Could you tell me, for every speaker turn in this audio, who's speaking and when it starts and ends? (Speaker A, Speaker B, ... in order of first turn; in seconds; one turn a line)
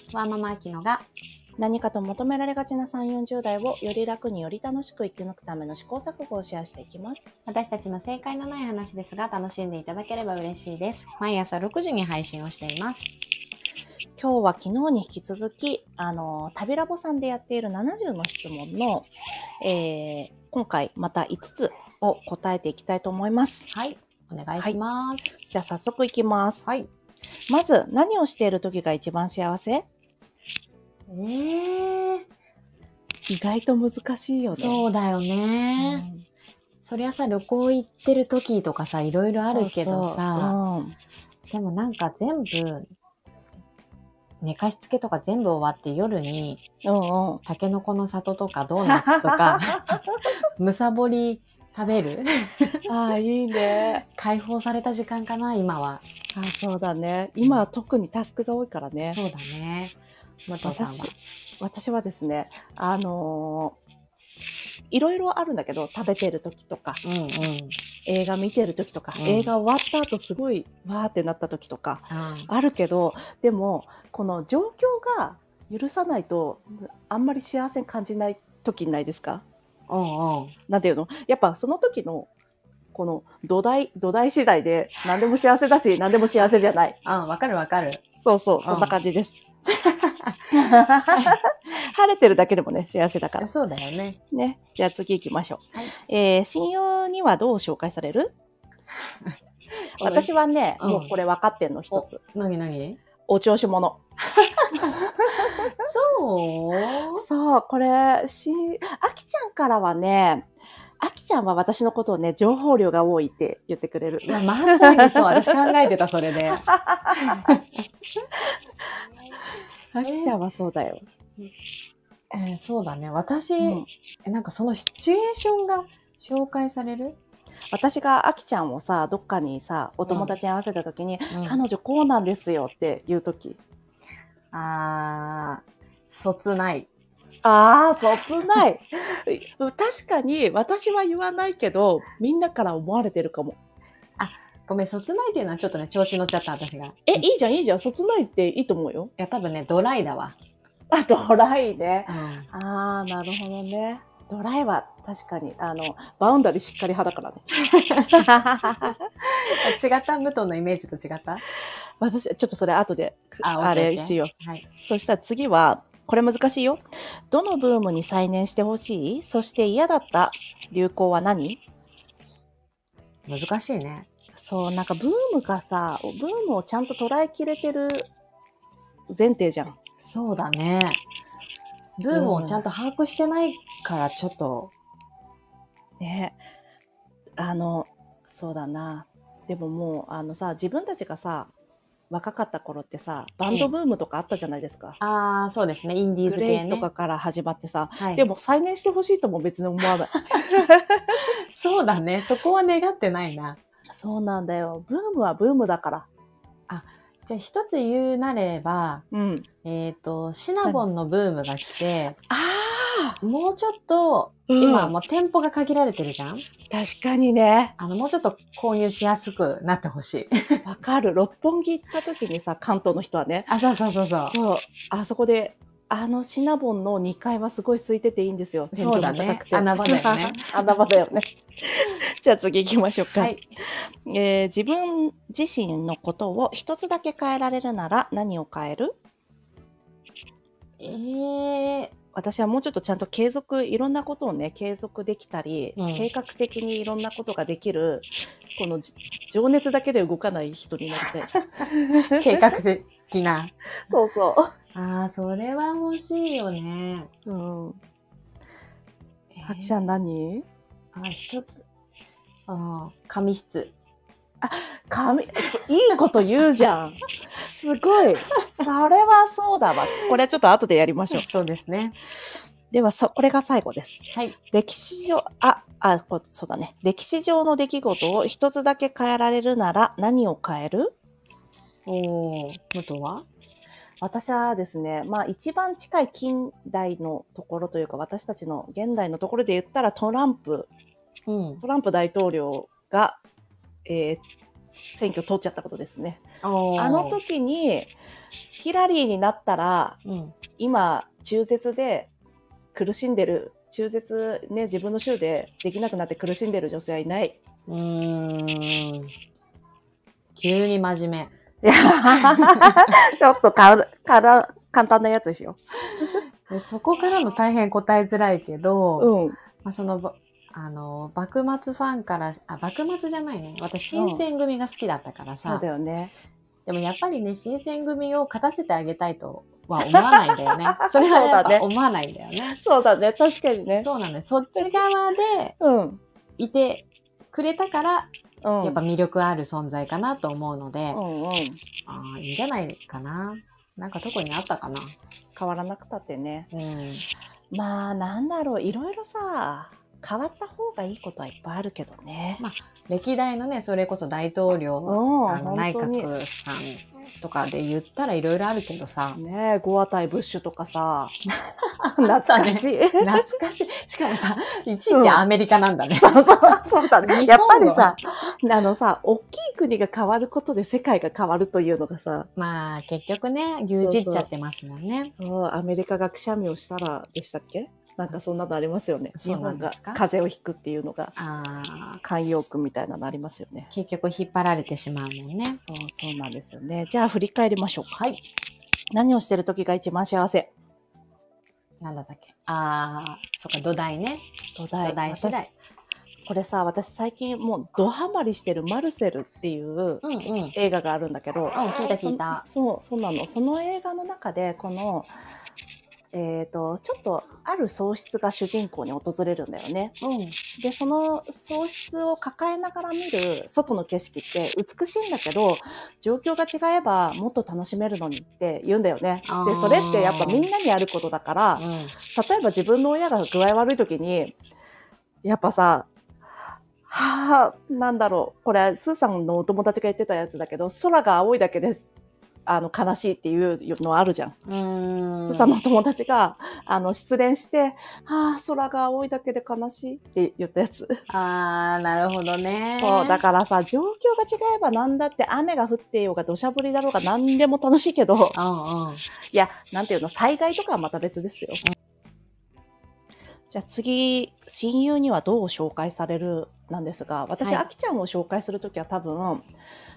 Speaker A: 0.1-1.0
Speaker B: 1.6-7.3
Speaker A: 7.5-13.1
Speaker B: 14.2-19.1
Speaker B: 19.6-23.7
Speaker A: 23.7-25.3
Speaker B: 25.5-26.6
Speaker B: 27.5-29.8
Speaker A: 31.1-32.2
Speaker B: 33.3-34.9
Speaker A: 34.5-36.1
Speaker B: 35.8-36.2
Speaker A: 36.8-40.5
Speaker B: 39.4-41.0
Speaker A: 41.5-42.9
Speaker A: 44.4-46.6
Speaker B: 46.8-47.4
Speaker A: 47.5-50.0
Speaker B: 48.8-50.0
Speaker A: 50.6-52.8
Speaker B: 52.9-54.0
Speaker A: 54.0-56.0
Speaker B: 56.3-59.2
Speaker A: 59.1-59.9
Speaker A: 60.5-61.1
Speaker B: 60.6-63.8
Speaker B: 64.9-67.0
Speaker A: 67.0-67.8
Speaker B: 68.0-79.4
Speaker A: 69.2-69.5
Speaker A: 72.1-72.5
Speaker A: 79.9-80.5
Speaker B: 80.7-82.3
Speaker B: 82.9-87.0
Speaker A: 87.0-88.0
Speaker B: 88.2-89.4
Speaker A: 88.6-89.0
Speaker A: 89.7-91.4
Speaker B: 90.5-93.5
Speaker A: 93.4-94.2
Speaker B: 94.3-98.3
Speaker A: 99.2-100.3
Speaker B: 100.0-102.2
Speaker A: 100.8-101.1
Speaker A: 101.9-103.0
Speaker B: 103.3-104.0
Speaker A: 104.3-104.8
Speaker B: 104.9-105.6
Speaker A: 105.4-107.2
Speaker B: 107.2-110.5
Speaker B: 111.0-115.5
Speaker A: 114.3-117.6
Speaker B: 116.4-117.3
Speaker B: 119.9-121.0
Speaker A: 120.0-120.3
Speaker A: 122.3-127.2
Speaker B: 123.6-123.9
Speaker B: 127.7-133.6
Speaker A: 130.1-130.3
Speaker A: 131.3-131.6
Speaker A: 134.5-136.9
Speaker B: 137.4-143.6
Speaker A: 144.2-147.2
Speaker B: 147.1-149.1
Speaker A: 149.2-150.3
Speaker B: 150.9-157.5
Speaker A: 152.1-152.5
Speaker A: 157.7-161.4
Speaker B: 158.1-158.9
Speaker B: 162.0-171.6
Speaker A: 163.4-164.6
Speaker A: 173.3-174.1
Speaker B: 174.3-178.1
Speaker B: 179.1-179.8
Speaker A: 180.0-181.0
Speaker A: 182.0-184.7
Speaker B: 182.1-182.7
Speaker B: 186.0-186.4
Speaker B: 187.4-191.5
Speaker B: 192.1-195.0
Speaker A: 195.0-196.9
Speaker B: 196.2-201.2
Speaker A: 198.0-198.2
Speaker A: 201.1-203.6
Speaker B: 203.9-206.1
Speaker A: 206.7-209.0
Speaker B: 209.1-209.5
Speaker A: 209.6-212.2
Speaker B: 212.3-213.2
Speaker A: 213.2-216.4
Speaker B: 214.5-214.9
Speaker B: 216.7-217.8
Speaker A: 217.8-220.6
Speaker B: 220.7-223.5
Speaker A: 223.5-224.3
Speaker B: 224.2-233.3
Speaker A: 228.7-230.6
Speaker A: 233.1-233.5
Speaker B: 234.1-238.9
Speaker A: 240.8-241.9
Speaker B: 242.1-252.6
Speaker A: 245.8-246.1
Speaker A: 251.4-253.5
Speaker B: 253.9-254.5
Speaker A: 254.7-257.1
Speaker B: 257.2-257.8
Speaker A: 259.3-259.7
Speaker B: 259.4-260.4
Speaker A: 260.9-261.6
Speaker A: 262.5-263.7
Speaker B: 264.4-271.2
Speaker A: 271.1-271.9
Speaker B: 272.7-280.9
Speaker A: 281.9-283.2
Speaker B: 284.0-290.7
Speaker A: 291.3-291.6
Speaker B: 291.6-293.2
Speaker B: 293.9-294.2
Speaker B: 294.9-296.2
Speaker A: 296.4-297.2
Speaker B: 296.8-297.9
Speaker B: 298.6-300.0
Speaker A: 300.1-300.3
Speaker B: 300.6-302.1
Speaker B: 302.7-307.4
Speaker A: 307.7-309.1
Speaker A: 310.3-311.3
Speaker B: 311.6-316.2
Speaker A: 312.2-312.9
Speaker A: 316.1-319.1
Speaker B: 319.0-319.4
Speaker A: 319.6-325.6
Speaker B: 323.9-324.2
Speaker B: 325.4-326.1
Speaker A: 326.6-332.6
Speaker B: 329.8-331.7
Speaker B: 332.5-333.9
Speaker A: 333.8-335.6
Speaker B: 335.6-336.0
Speaker A: 336.4-341.0
Speaker B: 338.4-338.8
Speaker B: 340.9-341.6
Speaker A: 341.9-344.9
Speaker B: 345.3-346.5
Speaker A: 346.5-347.1
Speaker B: 347.5-352.4
Speaker A: 352.4-359.2
Speaker B: 354.9-356.1
Speaker B: 359.1-361.1
Speaker A: 361.5-368.0
Speaker B: 361.9-363.2
Speaker B: 364.9-365.2
Speaker B: 366.0-372.3
Speaker A: 372.4-375.1
Speaker B: 373.8-374.3
Speaker B: 375.1-381.1
Speaker A: 379.1-380.0
Speaker A: 381.1-382.0
Speaker B: 382.0-383.7
Speaker A: 383.7-385.6
Speaker B: 385.6-387.9
Speaker A: 387.9-388.2
Speaker B: 388.9-390.5
Speaker A: 391.8-394.2
Speaker B: 394.6-395.4
Speaker A: 394.8-395.5
Speaker B: 396.2-400.0
Speaker A: 400.0-400.6
Speaker B: 400.6-405.1
Speaker A: 401.5-402.4
Speaker B: 406.1-409.9
Speaker A: 410.0-410.4
Speaker B: 410.6-424.3
Speaker A: 419.2-420.5
Speaker A: 421.6-421.9
Speaker B: 425.2-425.9
Speaker B: 426.9-431.9
Speaker B: 432.4-434.3
Speaker A: 434.4-435.6
Speaker B: 435.2-441.0
Speaker A: 441.1-443.2
Speaker B: 442.8-448.4
Speaker A: 448.3-449.0
Speaker B: 449.3-451.6
Speaker B: 453.5-459.5
Speaker A: 457.4-457.6